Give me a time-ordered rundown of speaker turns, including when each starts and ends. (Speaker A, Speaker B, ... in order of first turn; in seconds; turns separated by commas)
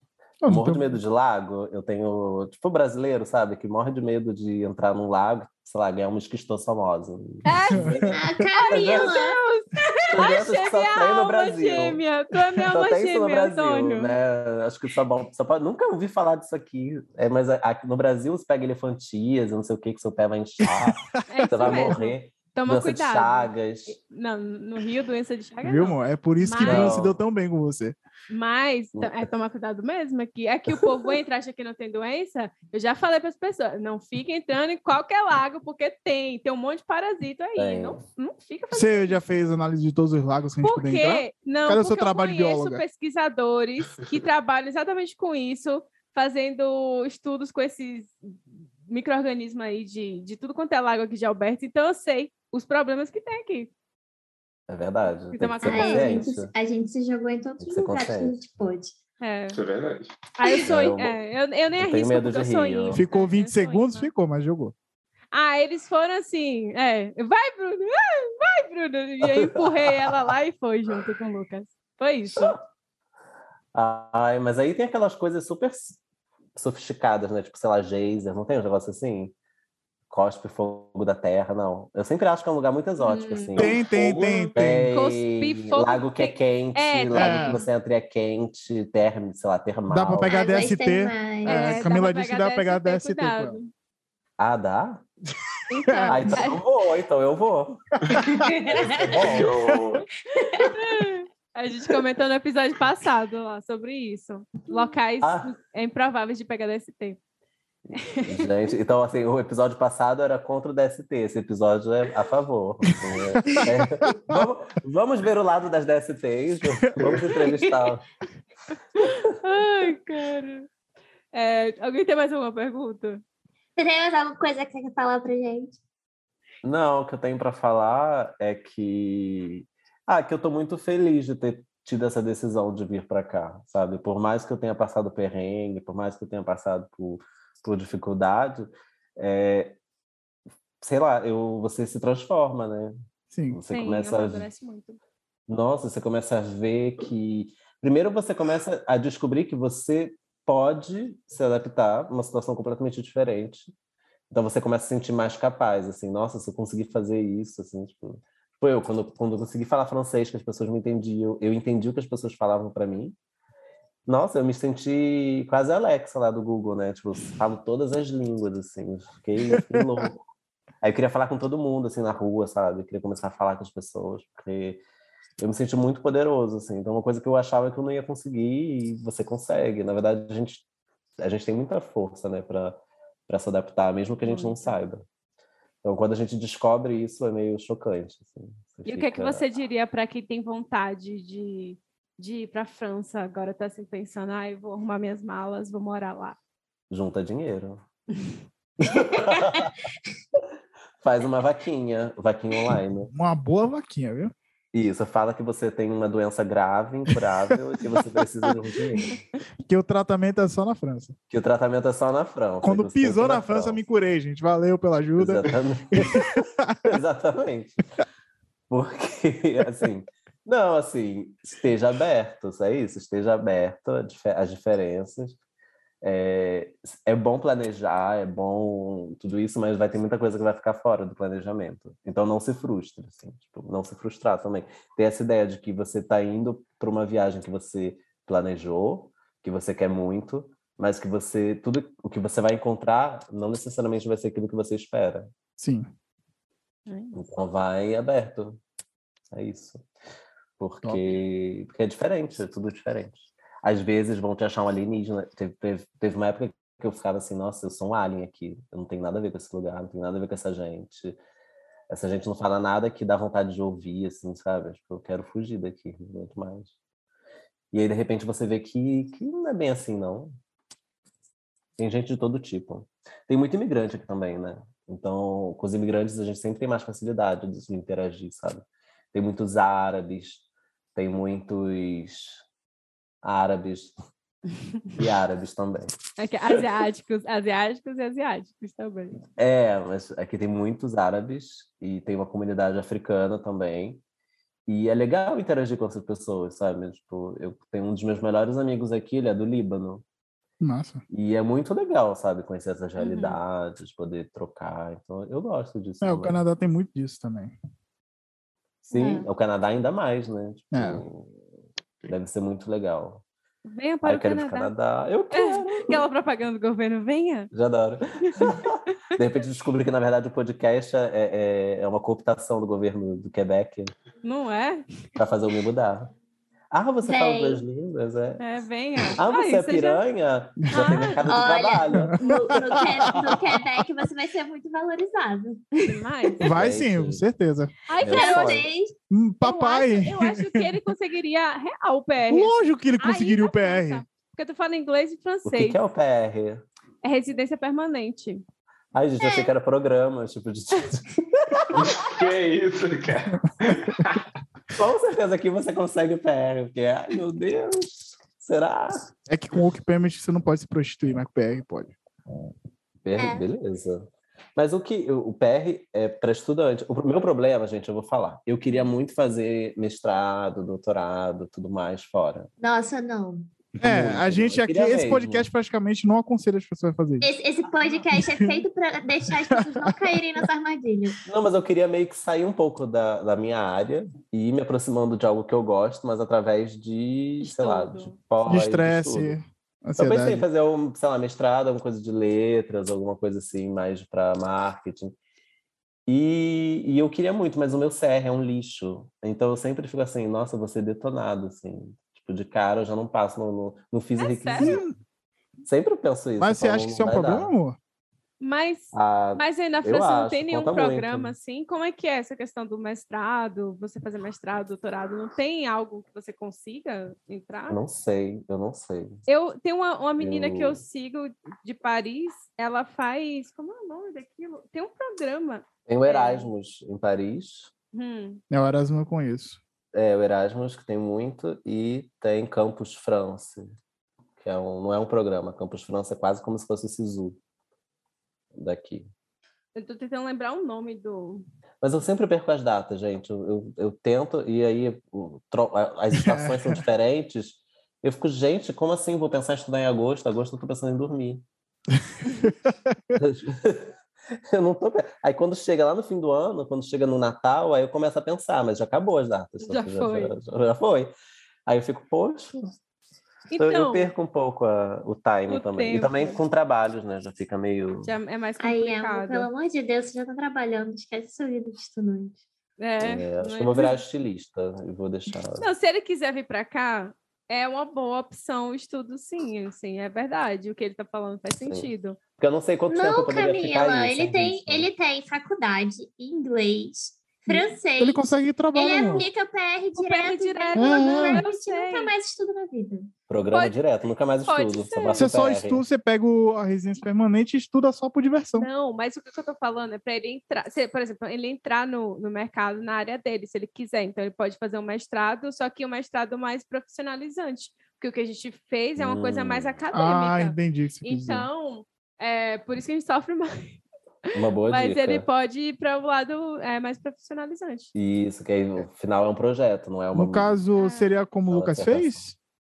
Speaker A: 0.4-0.9, Speaker B: 0.5-8.2, Speaker C: 7.4-14.2, Speaker A: 7.7-8.2, Speaker D: 8.1-9.4, Speaker B: 8.7-9.1, Speaker B: 10.1-12.0, Speaker B: 12.7-24.0, Speaker A: 20.6-21.9, Speaker C: 21.3-27.0, Speaker A: 25.6-27.9, Speaker B: 26.6-27.2, Speaker C: 28.3-39.2, Speaker B: 28.9-29.3, Speaker B: 30.7-31.1, Speaker B: 37.5-38.0, Speaker A: 38.7-42.8, Speaker C: 40.6-53.7, Speaker B: 54.7-56.5, Speaker C: 55.3-56.3, Speaker D: 55.6-59.0, Speaker B: 57.6-58.4, Speaker C: 59.2-59.6, Speaker E: 59.5-60.1, Speaker C: 60.4-64.1, Speaker B: 60.6-61.1, Speaker B: 61.7-63.0, Speaker A: 62.9-64.7, Speaker C: 65.3-72.5, Speaker B: 69.2-70.2, Speaker B: 72.3-72.6, Speaker B: 73.7-76.0, Speaker B: 76.5-79.3, Speaker B: 80.1-83.8, Speaker C: 83.0-83.7, Speaker E: 83.5-84.6, Speaker A: 83.6-84.9, Speaker B: 84.5-90.7, Speaker C: 84.9-87.6, Speaker A: 87.1-87.6, Speaker A: 89.9-93.6, Speaker D: 90.2-91.8, Speaker C: 91.4-93.7, Speaker B: 94.4-95.0, Speaker C: 95.7-96.6, Speaker A: 95.9-96.2, Speaker B: 96.1-97.9, Speaker A: 98.2-98.4, Speaker D: 98.2-99.4, Speaker B: 98.7-99.5, Speaker E: 99.0-100.0, Speaker D: 100.4-100.9, Speaker C: 100.4-107.2, Speaker B: 105.2-105.5, Speaker C: 108.0-108.4, Speaker B: 108.2-118.0, Speaker A: 112.9-114.4, Speaker A: 116.8-117.2, Speaker C: 119.0-120.7, Speaker C: 121.3-123.2, Speaker D: 123.8-125.8, Speaker B: 126.6-139.8, Speaker B: 140.8-142.9, Speaker A: 143.3-143.6, Speaker B: 143.5-144.4, Speaker C: 143.7-145.0, Speaker B: 145.5-153.7, Speaker B: 154.3-163.2, Speaker B: 164.1-170.2, Speaker A: 169.5-170.0, Speaker B: 170.8-174.8, Speaker B: 175.4-180.6, Speaker B: 181.2-185.0, Speaker C: 184.2-184.7, Speaker B: 185.8-189.4, Speaker C: 188.8-196.4, Speaker B: 196.9-197.8, Speaker B: 198.8-199.8, Speaker B: 201.0-203.1, Speaker A: 203.1-204.3, Speaker B: 204.7-209.2, Speaker A: 209.7-211.1, Speaker B: 211.3-213.8, Speaker A: 212.6-216.9, Speaker B: 215.2-216.3, Speaker B: 216.8-217.8, Speaker B: 218.7-225.4, Speaker B: 226.0-245.3, Speaker A: 245.6-245.9, Speaker C: 246.9-247.2, Speaker B: 247.1-248.6, Speaker B: 249.3-249.8, Speaker B: 250.6-261.2, Speaker B: 261.9-266.7, Speaker B: 267.7-270.3, Speaker B: 271.8-280.4, Speaker B: 280.9-282.4, Speaker B: 283.2-283.9, Speaker B: 284.9-285.9, Speaker C: 286.2-289.2, Speaker B: 289.4-294.0, Speaker B: 294.7-300.0, Speaker A: 300.6-301.0, Speaker B: 301.1-306.4, Speaker C: 303.0-303.4, Speaker A: 306.0-307.5, Speaker D: 308.9-309.3, Speaker B: 308.9-311.4, Speaker A: 310.7-311.0, Speaker B: 312.1-313.2, Speaker C: 313.6-314.7, Speaker B: 314.0-316.0, Speaker C: 315.3-317.5, Speaker B: 317.5-323.9, Speaker C: 318.2-318.6, Speaker C: 324.2-324.8, Speaker B: 325.1-326.1, Speaker B: 326.7-328.4, Speaker D: 327.0-327.6, Speaker C: 328.4-330.0, Speaker B: 329.1-332.1, Speaker C: 330.7-331.3, Speaker D: 331.2-336.3, Speaker A: 331.9-333.3, Speaker B: 333.1-333.4, Speaker C: 335.8-336.5, Speaker A: 336.4-337.7, Speaker B: 336.6-337.2, Speaker C: 337.9-338.6, Speaker B: 338.0-338.7, Speaker D: 338.0-338.9, Speaker A: 339.1-340.7, Speaker C: 339.4-345.8, Speaker A: 342.3-344.0, Speaker B: 345.4-346.6, Speaker C: 347.0-348.4, Speaker B: 348.9-351.9, Speaker D: 349.2-349.5, Speaker E: 351.7-354.2, Speaker A: 353.4-354.0, Speaker B: 354.8-359.1, Speaker A: 359.3-361.9, Speaker B: 363.0-372.5, Speaker D: 363.2-363.4, Speaker D: 372.6-373.5, Speaker A: 373.8-377.2, Speaker B: 373.8-375.5, Speaker D: 377.2-381.2, Speaker A: 378.1-378.5, Speaker A: 379.5-380.2, Speaker B: 381.2-389.4, Speaker C: 387.4-388.1, Speaker A: 388.5-390.4, Speaker B: 390.0-395.1, Speaker B: 396.1-404.8, Speaker C: 404.2-404.8, Speaker A: 404.6-404.9, Speaker B: 405.6-407.5, Speaker A: 406.4-407.8, Speaker C: 408.4-417.8, Speaker B: 408.9-411.3, Speaker B: 417.7-419.2, Speaker C: 419.3-426.5, Speaker B: 420.2-420.8, Speaker B: 425.9-427.7, Speaker C: 427.9-428.4, Speaker A: 428.5-429.6, Speaker B: 429.9-433.7, Speaker B: 434.4-437.4, Speaker B: 438.5-439.1, Speaker C: 439.7-441.4, Speaker B: 441.8-451.4, Speaker A: 446.1-446.8, Speaker A: 452.4-452.7, Speaker B: 453.1-461.1, Speaker C: 459.6-460.3, Speaker B: 461.6-462.7, Speaker C: 463.5-464.1, Speaker B: 463.6-468.1, Speaker C: 465.5-466.4, Speaker C: 468.0-469.5, Speaker D: 468.6-472.4, Speaker C: 472.8-474.0, Speaker B: 473.0-475.7, Speaker C: 475.6-482.2, Speaker B: 481.6-484.9, Speaker D: 482.9-493.1, Speaker A: 487.5-489.2, Speaker C: 489.9-492.1, Speaker A: 490.7-491.4, Speaker B: 493.3-495.8, Speaker C: 493.5-493.8, Speaker C: 494.4-495.3, Speaker A: 495.1-498.7, Speaker C: 498.5-517.9, Speaker B: 509.0-509.7, Speaker A: 509.9-511.5, Speaker B: 514.3-515.2, Speaker B: 517.9-520.6, Speaker A: 520.1-522.3, Speaker C: 520.7-521.1, Speaker B: 521.5-522.2